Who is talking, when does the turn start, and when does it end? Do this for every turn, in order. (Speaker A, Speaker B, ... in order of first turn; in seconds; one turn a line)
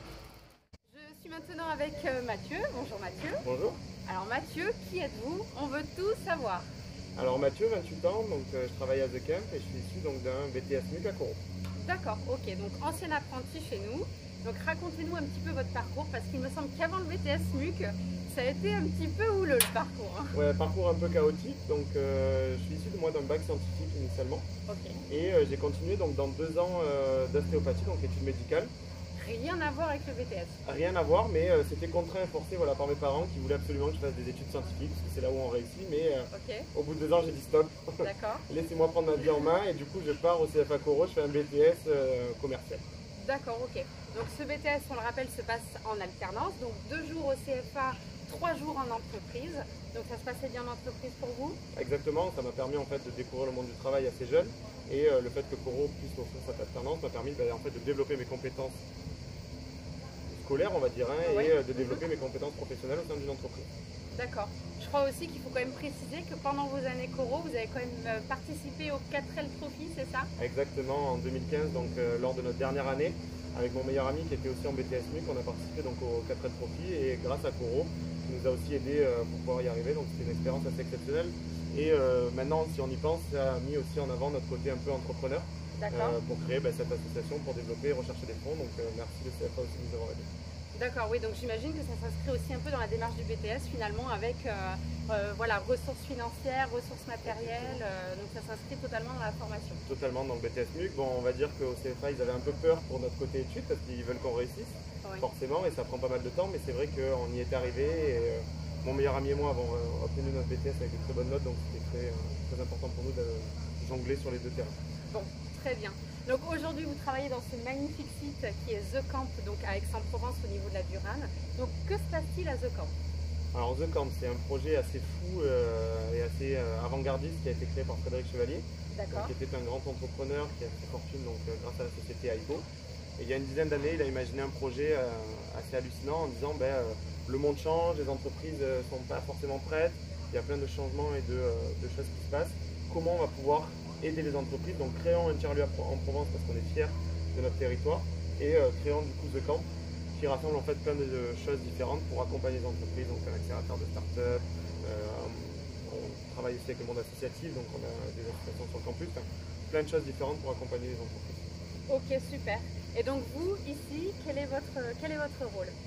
Speaker A: 0.9-3.4
Speaker B: 3.4-3.8
Speaker A: 4.0-6.7
Speaker B: 7.2-11.4
Speaker A: 11.8-20.3
Speaker B: 20.3-24.5
Speaker A: 24.7-25.0
Speaker B: 25.1-28.7
Speaker A: 29.2-30.6
Speaker B: 30.6-42.8
Speaker A: 36.3-36.7
Speaker A: 38.0-38.4
Speaker A: 43.2-51.6
Speaker B: 51.7-58.8
Speaker B: 60.3-63.7
Speaker A: 61.2-62.0
Speaker A: 64.2-70.3
Speaker B: 70.4-90.3
Speaker A: 85.8-86.2
Speaker A: 90.7-99.8
Speaker B: 97.2-97.8
Speaker B: 99.9-114.8
Speaker A: 115.1-123.0
Speaker B: 123.5-132.7
Speaker A: 128.9-129.3
Speaker B: 133.2-161.4
Speaker A: 161.9-165.8